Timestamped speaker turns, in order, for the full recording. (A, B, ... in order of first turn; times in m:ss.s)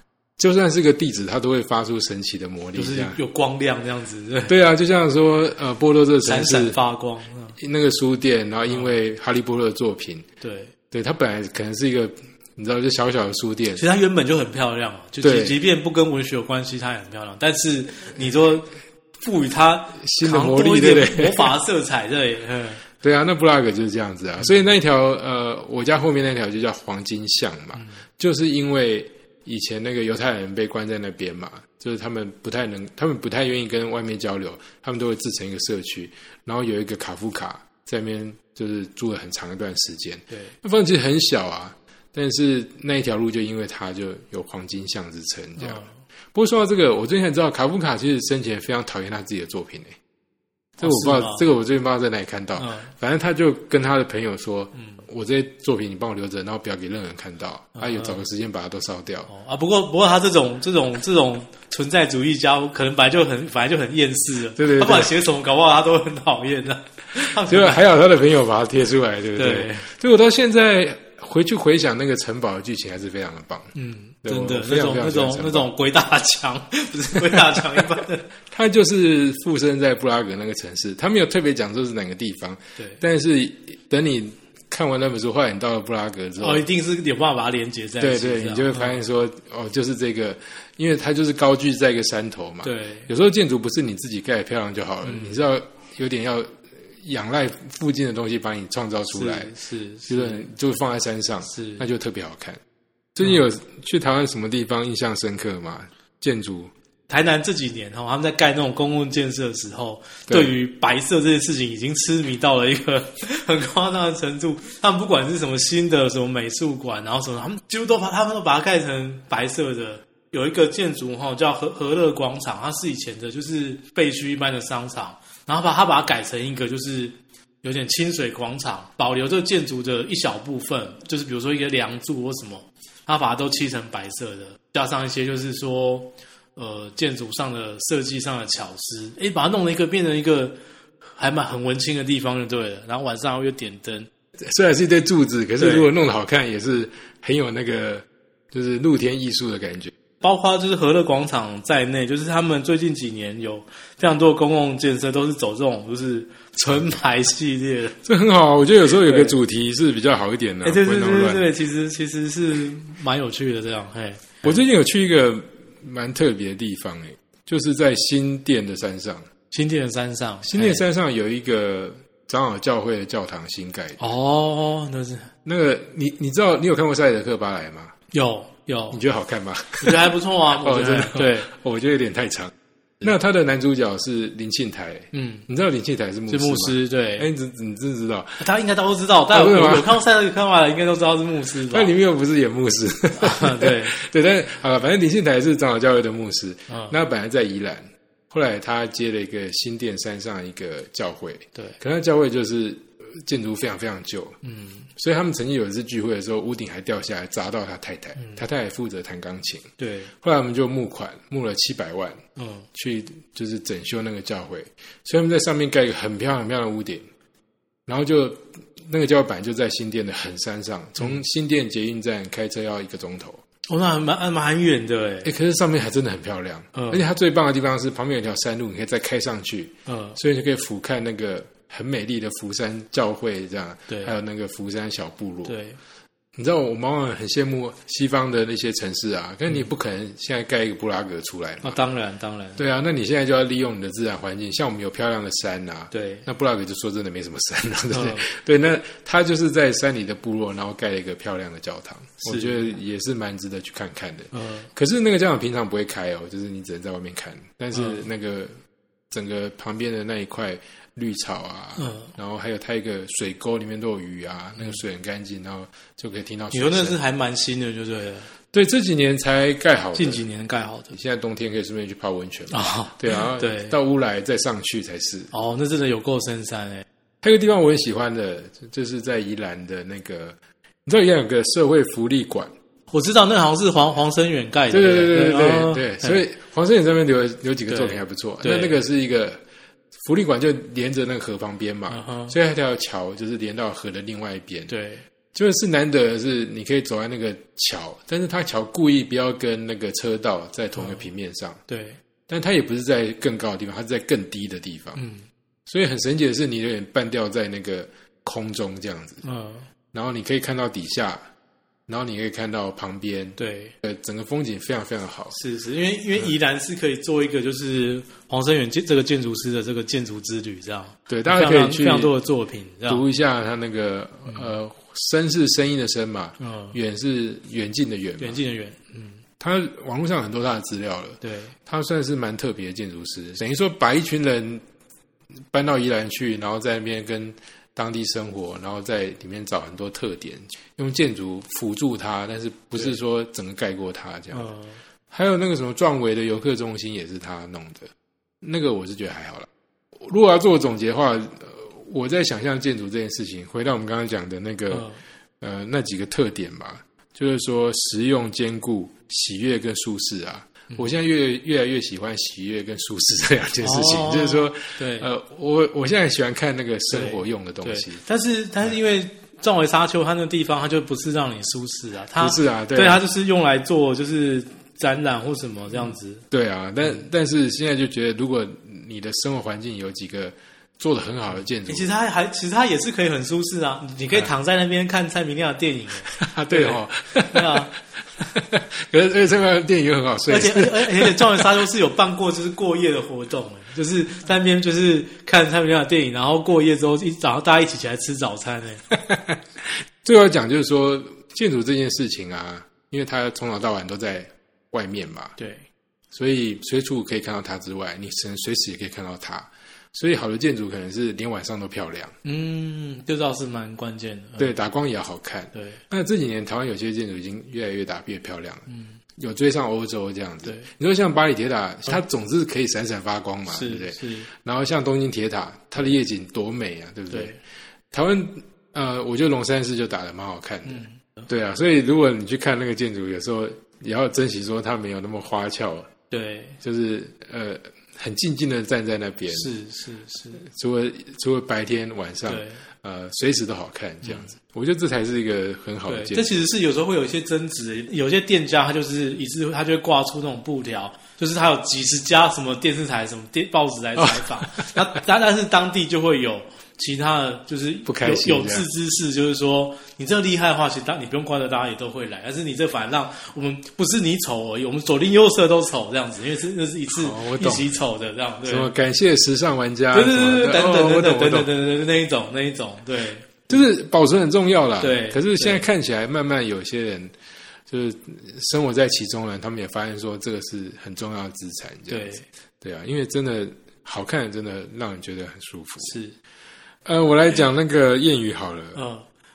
0:00.4-0:03.2 A
0:02.8-0:04.5 B
0:04.5-0:06.8 A
0:06.2-0:07.6 B
0:07.6-0:10.3 A
0:08.7-0:08.9 B
0:10.4-0:10.7 B
0:10.9-0:13.8 A
0:13.8-0:22.9 B
0:15.2-0:15.6 A
0:20.0-0:21.5 A
0:23.0-0:50.0 A
0:24.4-0:24.7 B
0:45.6-0:45.9 B
0:50.8-0:59.3 A
0:50.8-0:51.4 B
0:52.6-0:52.9 B
0:54.8-0:55.0 B
0:57.8-0:58.2 B
0:59.3-1:07.8 B
1:04.6-1:05.1 A
1:07.4-1:13.7 A
1:09.4-1:09.9 B
1:13.8-1:18.3 B
1:14.2-1:15.7 A
1:18.5-1:26.6 A
1:26.4-1:29.0 B
1:28.0-1:39.5 A
1:32.6-1:33.1 B
1:35.0-1:35.4 B
1:39.1-1:40.5 B
1:40.1-1:42.6 A
1:41.5-1:41.8 B
1:43.2-1:46.7 A
1:47.1-2:20.6 B
2:21.2-2:24.1 B
2:24.4-2:29.9 A
2:25.6-2:25.9 B
2:30.2-2:38.0 B
2:38.0-2:41.5 A
2:38.8-2:39.4 B
2:40.6-2:44.6 B
2:44.4-2:49.3 A
2:49.5-2:50.8 B
2:50.4-2:54.0 A
2:54.0-2:55.3 B
2:55.4-2:57.9 A
2:58.1-2:59.0 B
2:58.9-3:08.4 A
2:59.8-3:01.5 B
3:05.1-3:05.4 B
3:06.3-3:07.3 B
3:08.4-3:11.9 B
3:09.3-3:10.0 A
3:11.7-3:24.4 A
3:13.2-3:14.0 B
3:16.7-3:17.0 B
3:24.4-3:24.9 B
3:25.0-3:29.7 A
3:29.8-3:30.1 B
3:30.2-3:32.2 A
3:32.4-3:32.7 B
3:32.7-3:37.1 A
3:37.9-3:43.4 A
3:43.7-3:45.3 B
3:45.2-3:55.6 A
3:46.8-3:47.0 B
3:49.9-3:50.2 B
3:53.9-3:54.2 B
3:55.4-3:55.8 B
3:56.4-4:01.8 A
4:01.6-4:02.6 B
4:02.6-4:18.6 A
4:05.9-4:06.3 B
4:07.9-4:08.3 B
4:12.2-4:12.6 B
4:14.3-4:14.7 B
4:17.7-4:18.0 B
4:19.1-4:27.0 A
4:21.8-4:22.1 B
4:26.5-4:28.3 B
4:28.5-4:30.2 A
4:30.0-4:30.9 B
4:30.9-4:35.3 A
4:32.5-4:33.8 B
4:35.3-4:36.8 B
4:37.2-4:42.5 A
4:42.9-4:46.2 B
4:44.7-4:49.4 A
4:47.7-4:48.8 B
4:50.0-4:54.7 A
4:51.9-4:52.4 B
4:54.7-4:55.0 B
4:55.3-5:01.6 A
5:00.8-5:01.0 B
5:01.7-5:02.0 B
5:02.3-5:05.0 A
5:05.0-5:05.3 B
5:05.7-5:09.2 A
5:09.2-5:09.7 B
5:09.9-5:11.3 A
5:11.9-5:15.4 A
5:13.4-5:13.7 B
5:15.3-5:23.0 B
5:21.1-5:22.1 A
5:22.9-5:28.4 A
5:26.4-5:26.8 B
5:28.2-5:29.2 B
5:29.4-5:34.6 A
5:31.2-5:31.5 B
5:35.5-5:44.5 A
5:44.3-5:44.8 B
5:45.1-5:47.9 A
5:48.4-5:49.5 A
5:50.0-5:54.9 A
5:54.7-5:55.0 B
5:55.4-6:08.0 A
6:03.6-6:05.1 B
6:06.9-6:16.2 B
6:12.2-6:13.0 A
6:16.3-6:21.9 A
6:21.7-6:27.7 B
6:26.1-6:27.7 A
6:28.2-6:31.6 A
6:30.3-6:38.8 B
6:38.9-6:45.4 A
6:45.4-6:45.6 B
6:46.1-6:52.1 A
6:52.2-6:54.6 B
6:54.4-6:58.6 A
6:55.5-6:55.8 B
6:58.7-6:59.0 B
6:59.2-7:07.4 A
7:03.5-7:04.3 B
7:07.1-7:07.4 B
7:07.9-7:15.9 A
7:10.7-7:11.0 B
7:16.1-7:16.6 B
7:16.6-7:19.5 A
7:19.3-7:20.4 B
7:20.4-7:26.3 A
7:22.3-7:22.6 B
7:24.0-7:24.3 B
7:25.9-7:48.7 B
7:34.0-7:34.8 A
7:37.8-7:38.7 A
7:46.9-7:47.7 A
7:48.4-7:51.5 A
7:49.9-7:53.6 B
7:53.5-7:57.2 A
7:54.8-7:55.7 B
7:57.7-8:06.0 A
8:01.9-8:02.2 B
8:05.8-8:06.2 B
8:06.9-8:08.8 A
8:08.8-8:09.0 B